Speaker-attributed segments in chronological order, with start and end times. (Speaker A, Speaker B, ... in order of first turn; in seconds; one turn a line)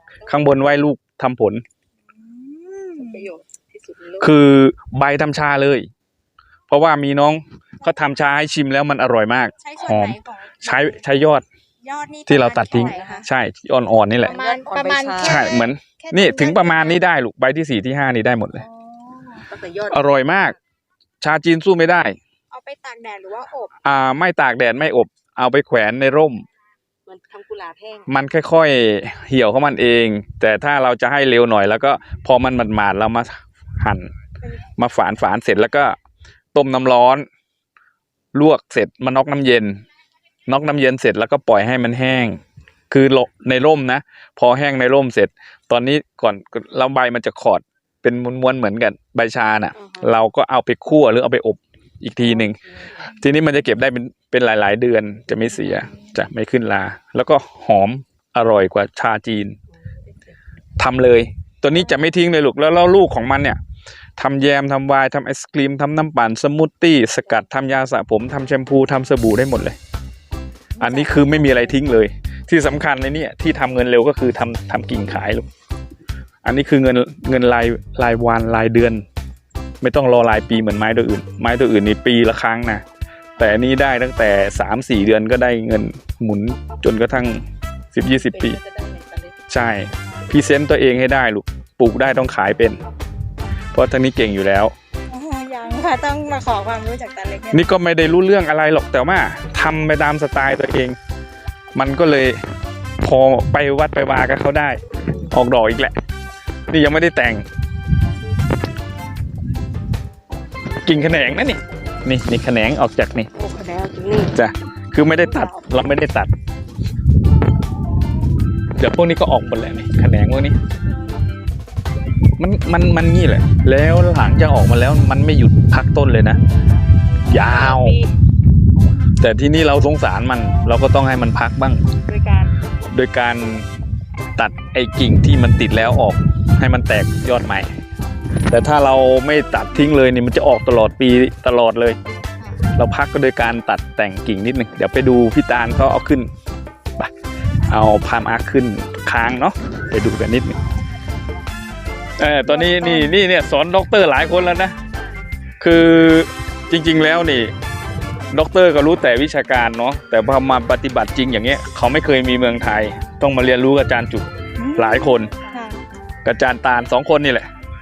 Speaker A: 0.1-0.8
Speaker B: 0.3-1.6
Speaker C: 2.0-3.3
Speaker A: 3.0-4.3
Speaker B: 4.2-5.9
Speaker B: 6.7-11.4
Speaker C: 9.6-11.0
Speaker C: 11.8-13.2
Speaker B: 12.3-14.3
Speaker A: 12.7-13.3
Speaker C: 14.2-17.0
Speaker A: 14.3-15.5
Speaker B: 15.2-18.6
Speaker C: 18.6-19.5
Speaker A: 19.5-20.5
Speaker B: 19.9-20.6
Speaker B: 21.2-22.2
Speaker C: 22.5-23.7
Speaker B: 23.8-26.4
Speaker A: 27.1-28.1
Speaker B: 28.1-34.1
Speaker B: 34.8-36.0
Speaker B: 36.5-37.3
Speaker B: 38.3-39.8
Speaker B: 40.5-42.4
Speaker B: 42.9-59.6
Speaker A: 49.8-50.1
Speaker A: 52.2-53.0
Speaker B: 60.8-63.6
Speaker B: 64.2-69.8
Speaker C: 70.8-71.3
Speaker B: 70.8-75.5
Speaker B: 76.5-79.0
Speaker B: 79.8-82.8
Speaker B: 83.4-87.4
Speaker B: 87.9-88.6
Speaker A: 88.0-89.3
Speaker B: 89.5-92.8
Speaker B: 93.7-94.7
Speaker C: 95.1-97.7
Speaker B: 97.5-101.0
Speaker B: 101.8-102.4
Speaker B: 103.0-106.0
Speaker B: 106.7-107.5
Speaker B: 110.8-113.3
Speaker A: 113.3-114.4
Speaker B: 114.3-116.3
Speaker A: 115.2-115.7
Speaker B: 118.8-120.6
Speaker B: 122.4-126.4
Speaker B: 127.3-128.0
Speaker C: 127.3-128.1
Speaker B: 129.2-131.8
Speaker C: 132.1-132.5
Speaker B: 132.9-133.7
Speaker B: 134.3-137.7
Speaker B: 138.5-142.0
Speaker B: 142.8-146.3
Speaker B: 147.7-150.6
Speaker B: 152.2-154.8
Speaker C: 152.4-153.1
Speaker B: 155.6-157.5
Speaker B: 158.3-165.3
Speaker C: 164.6-165.8
Speaker B: 166.2-167.5